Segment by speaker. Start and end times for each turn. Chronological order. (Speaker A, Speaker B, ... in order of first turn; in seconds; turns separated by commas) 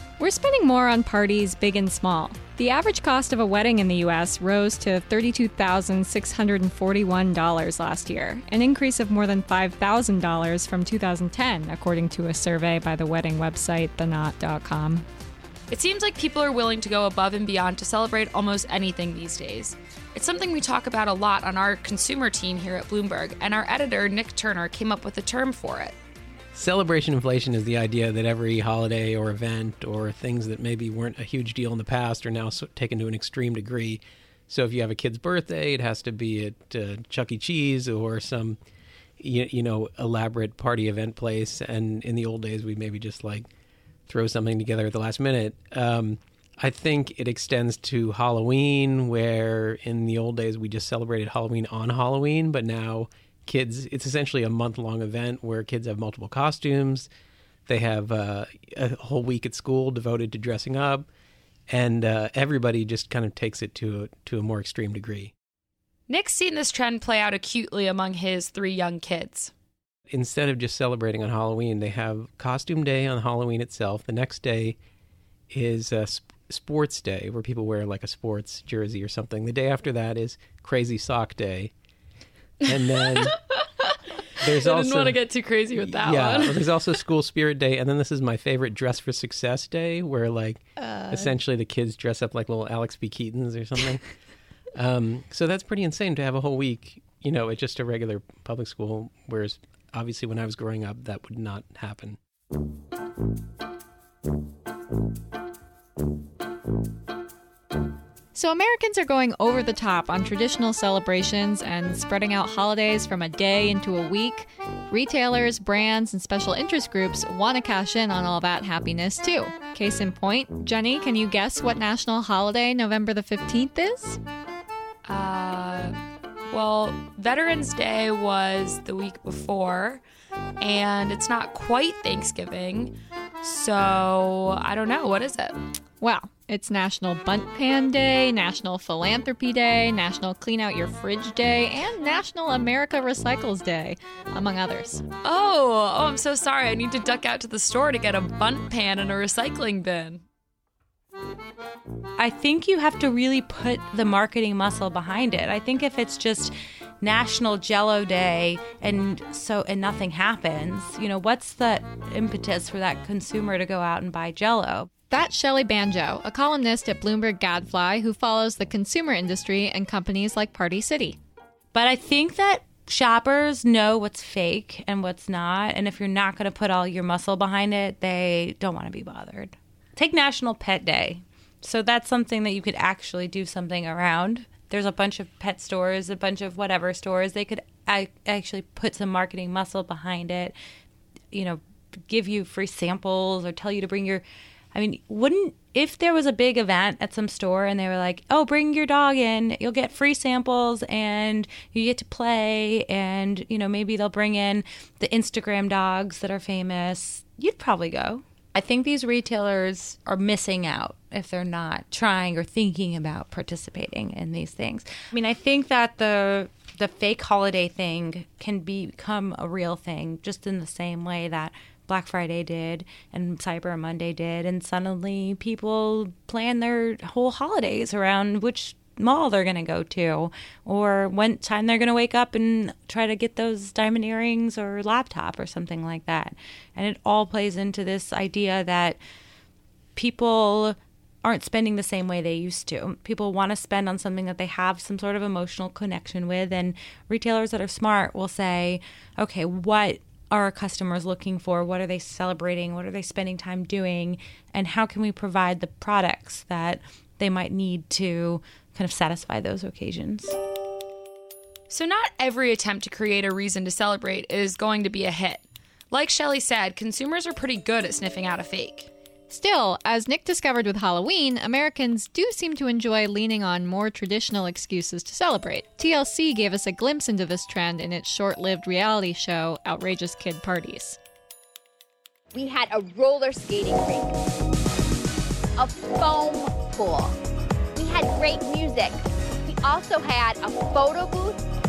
Speaker A: 0.2-15.1, Speaker B: 15.7-25.9, Speaker C: 26.5-38.6, Speaker C: 39.2-43.5, Speaker C: 44.1-57.1, Speaker C: 57.7-61.1, Speaker C: 61.7-65.3, Speaker B: 66.1-69.5, Speaker C: 70.1-74.8, Speaker C: 75.5-81.7, Speaker C: 82.7-83.4, Speaker C: 84.4-94.0, Speaker B: 84.5-86.8, Speaker C: 94.8-102.2, Speaker A: 108.3-124.2, Speaker B: 125.0-126.0, Speaker B: 126.5-130.0, Speaker B: 130.6-135.6, Speaker A: 136.0-145.0, Speaker B: 145.2-150.2, Speaker D: 152.2-164.9, Speaker A: 165.1-171.2, Speaker D: 171.7-190.6, Speaker D: 191.3-239.0, Speaker D: 239.9-260.3, Speaker B: 261.7-268.9, Speaker A: 269.3-281.0, Speaker E: 282.3-284.2, Speaker E: 285.6-287.2, Speaker E: 287.7-291.4